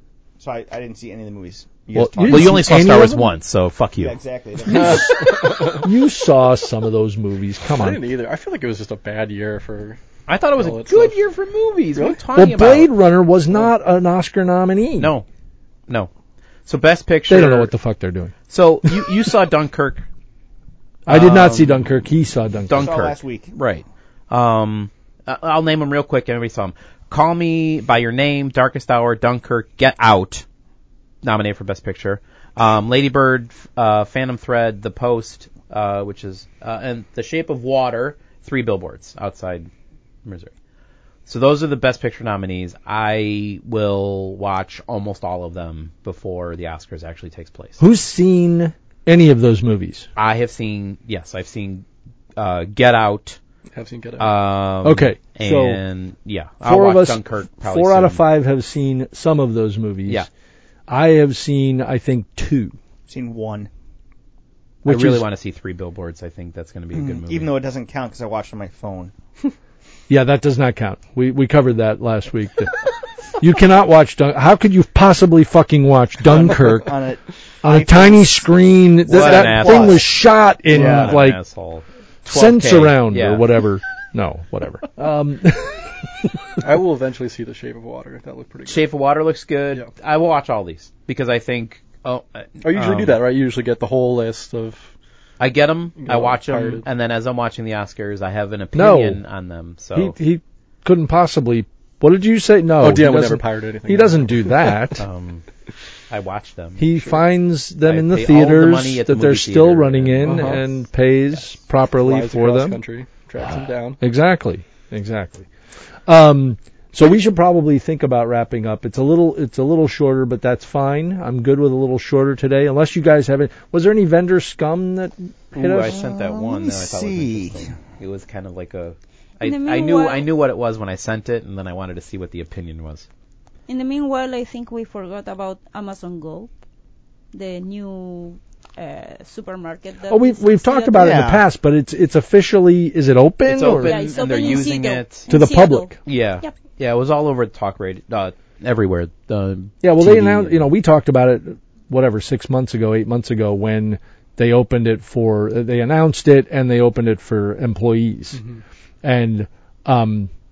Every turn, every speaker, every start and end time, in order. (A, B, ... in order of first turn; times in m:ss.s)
0:00.4-0:02.7 A
0:01.9-0:03.3 B
0:02.2-0:04.2 C
0:04.0-0:05.4 A
0:04.6-0:08.0 B
0:04.7-0:05.0 C
0:04.8-0:05.8 D
0:07.7-0:10.0 D
0:10.3-0:12.9 C
0:10.6-0:11.2 D
0:11.9-0:12.2 D
0:12.3-0:15.1 B
0:15.0-0:15.2 C
0:16.6-0:17.7 C
0:17.3-0:18.3 B
0:18.5-0:20.0 C
0:21.0-0:22.9 B
0:21.1-0:21.8 C
0:22.7-0:30.4 C
0:22.7-0:23.5 A
0:31.2-0:39.7 C
0:40.2-0:40.5 C
0:41.2-0:47.8 C
0:47.8-0:50.1 B
0:50.2-0:51.8 C
0:52.4-0:53.4 C
0:53.7-0:54.3 D
0:54.2-0:58.2 C
0:54.8-0:55.8 B
0:56.6-1:00.3 B
1:00.9-1:02.8 B
1:03.1-1:03.7 A
1:04.8-1:05.2 B
1:04.8-1:07.5 C
1:06.9-1:09.1 A
1:10.1-1:17.0 B
1:16.3-1:20.0 A
1:17.6-1:21.4 B
1:19.0-1:20.0 C
1:20.7-1:23.5 C
1:20.7-1:21.2 D
1:22.2-1:26.3 B
1:26.6-1:28.8 D
1:28.7-1:33.2 C
1:32.6-1:34.9 D
1:35.4-1:40.2 C
1:36.0-1:36.8 D
1:38.7-1:39.2 B
1:39.9-1:45.0 B
1:42.8-1:44.8 D
1:45.0-1:45.5 C
1:46.1-1:46.8 C
1:46.8-1:52.8 B
1:46.9-1:47.2 D
1:47.8-1:50.6 C
1:50.2-1:50.7 D
1:52.0-1:54.0 D
1:53.4-1:55.5 B
1:56.0-2:06.0 B
2:05.5-2:13.1 C
2:05.8-2:07.6 A
2:09.4-2:10.2 E
2:13.7-2:16.5 E
2:17.3-2:21.2 E
2:20.1-2:24.0 B
2:20.9-2:21.4 A
2:23.4-2:25.3 C
2:23.8-2:26.5 E
2:25.3-2:25.9 B
2:26.0-2:30.7 C
2:29.8-2:38.4 B
2:39.0-2:40.3 B